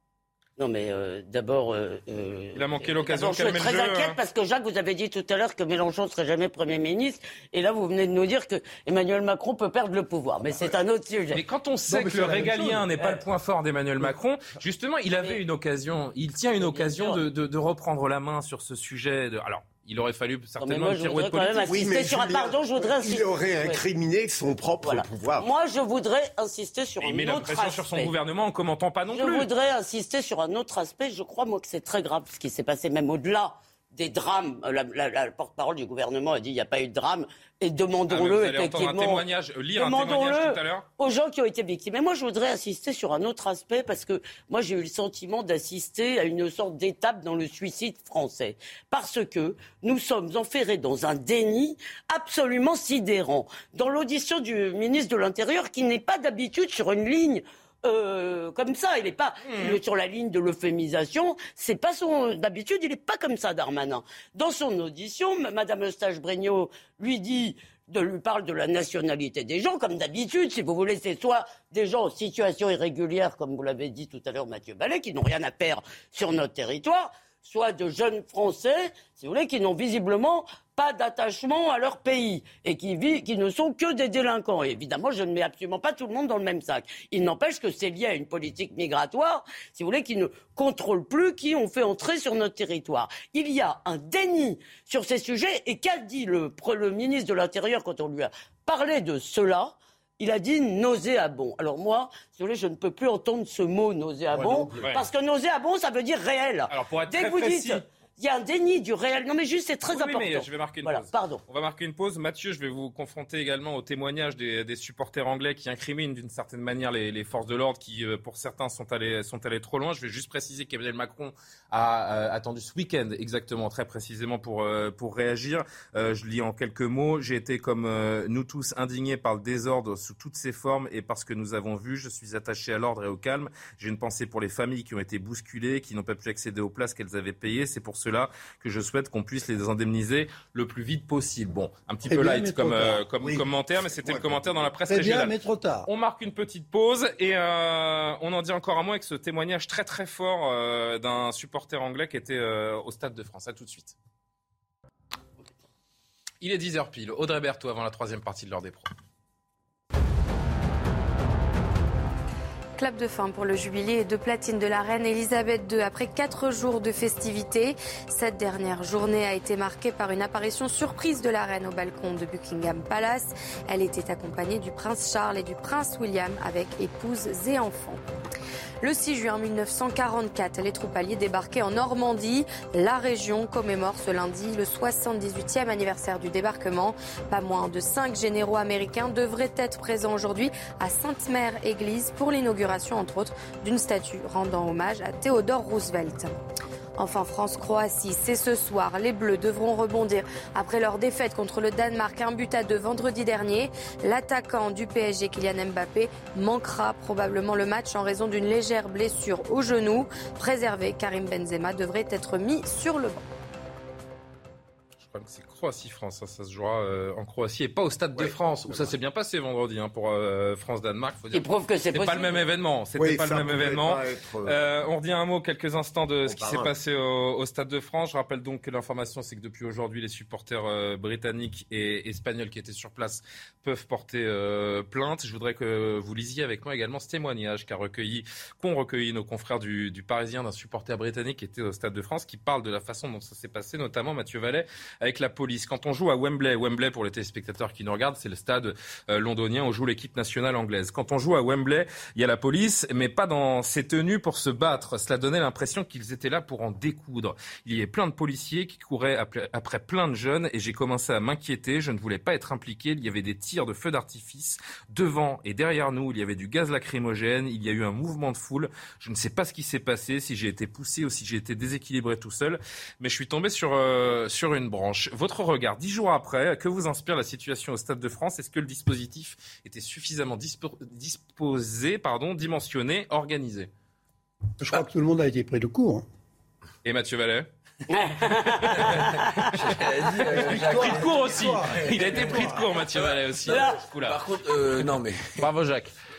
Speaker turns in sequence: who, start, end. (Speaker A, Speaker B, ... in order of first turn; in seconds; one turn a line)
Speaker A: 0.6-11.4
Speaker B: 2.5-4.2
Speaker B: 11.3-21.9
Speaker C: 11.9-12.9
Speaker A: 13.0-13.2
Speaker A: 15.1-15.4
Speaker A: 16.6-17.2
Speaker A: 20.6-23.8
Speaker D: 21.7-25.5
Speaker A: 24.8-28.1
Speaker B: 27.0-29.5
Speaker A: 29.1-39.2
Speaker B: 38.1-40.9
Speaker A: 39.7-111.4
Speaker B: 59.4-59.8
Speaker D: 104.3-104.9
Speaker B: 104.8-105.0
Speaker B: 106.7-107.8
Speaker B: 109.8-145.3
Speaker C: 142.1-143.0
Speaker D: 143.2-143.4
Speaker D: 144.0-144.6
Speaker C: 144.9-145.9
Speaker B: 145.8-153.9
Speaker B: 156.4-158.9
Speaker E: 162.8-178.0
Speaker E: 178.8-196.3
Speaker E: 197.0-213.2
Speaker B: 215.0-283.7
Speaker D: 218.1-218.9
Speaker A: 221.3-222.4
Speaker D: 223.0-224.6
Speaker D: 226.2-226.7
Speaker C: 284.6-286.0
Speaker B: 286.8-287.5
Speaker A: 287.9-289.5
Speaker B: 288.1-289.7
Speaker F: 289.6-295.4
Speaker B: 290.2-294.2
Speaker C: 290.3-292.6
Speaker A: 293.4-293.8
Speaker B: 295.4-295.9